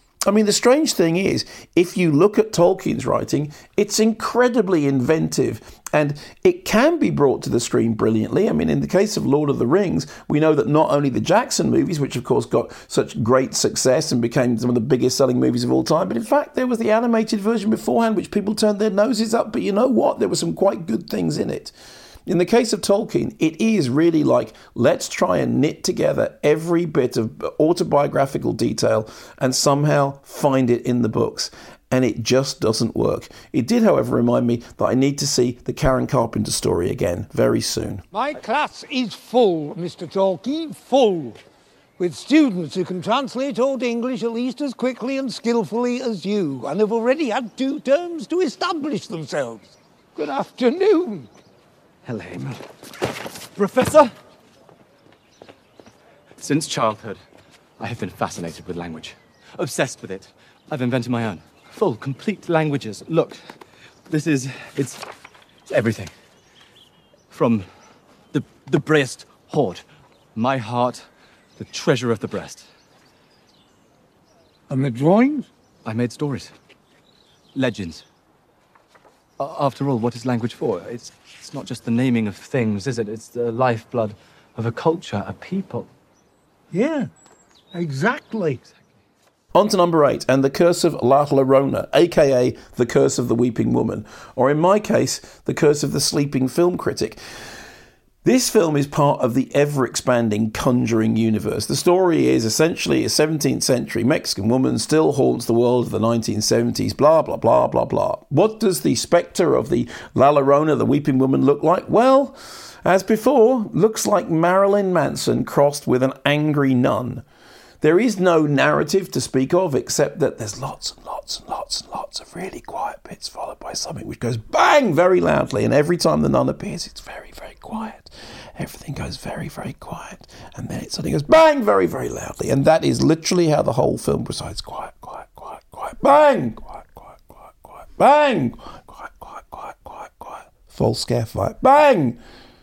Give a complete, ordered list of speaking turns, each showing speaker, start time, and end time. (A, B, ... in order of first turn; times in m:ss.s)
0:00.2-0:21.7 A
0:22.2-0:38.0 A
0:38.1-0:41.4 B
0:42.0-0:51.3 B
0:52.0-0:52.6 C
0:53.5-0:54.1 C
0:56.4-0:57.2 C
0:57.8-1:03.5 C
1:04.1-1:05.0 C
1:05.7-1:06.1 C
1:07.3-1:07.7 C
1:08.3-1:09.8 C
1:10.3-1:11.0 C
1:11.6-1:12.6 C
1:14.7-1:15.5 B
1:15.8-1:16.5 C
1:17.5-1:18.0 C
1:19.4-1:25.9 C
1:26.7-1:27.1 B
1:27.7-1:28.6 B
1:29.5-1:37.2 A
1:38.2-1:57.2 A
1:57.8-2:22.2 A